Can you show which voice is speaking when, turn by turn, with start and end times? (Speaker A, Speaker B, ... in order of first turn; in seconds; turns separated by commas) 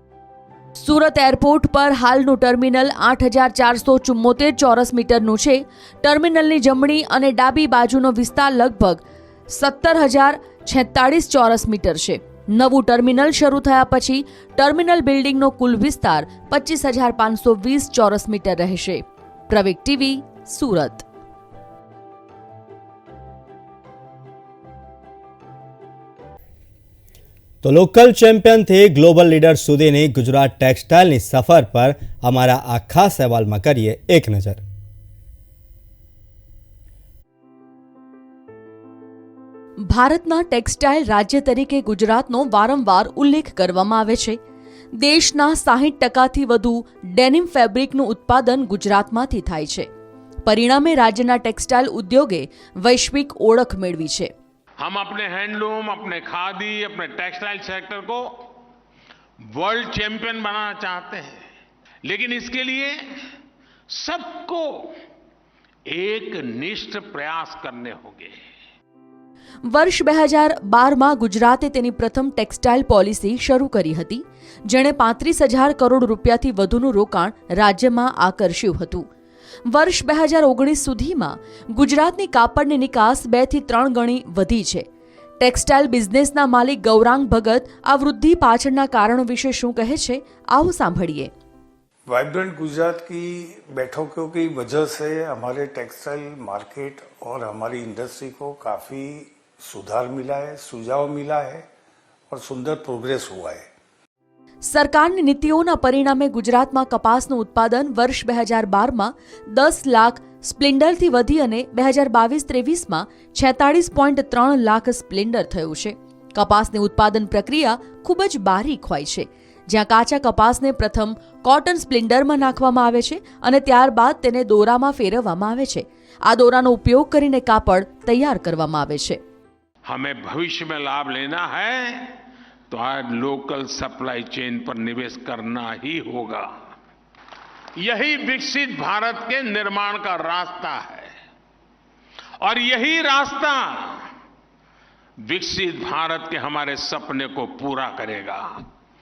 Speaker A: 0.8-21.1, Speaker B: 27.6-34.6, Speaker A: 39.8-44.4, Speaker A: 44.9-49.9, Speaker A: 50.5-54.3, Speaker C: 54.8-58.5, Speaker C: 59.5-61.4, Speaker C: 62.0-63.0, Speaker C: 63.9-64.9, Speaker C: 65.9-68.4, Speaker A: 69.7-79.1, Speaker A: 79.7-84.9, Speaker A: 85.4-91.3, Speaker D: 92.1-101.7, Speaker D: 102.3-103.7, Speaker A: 104.6-129.2, Speaker C: 129.9-132.1, Speaker C: 132.7-136.5, Speaker C: 137.8-141.1, Speaker C: 142.4-144.1, Speaker C: 145.2-148.6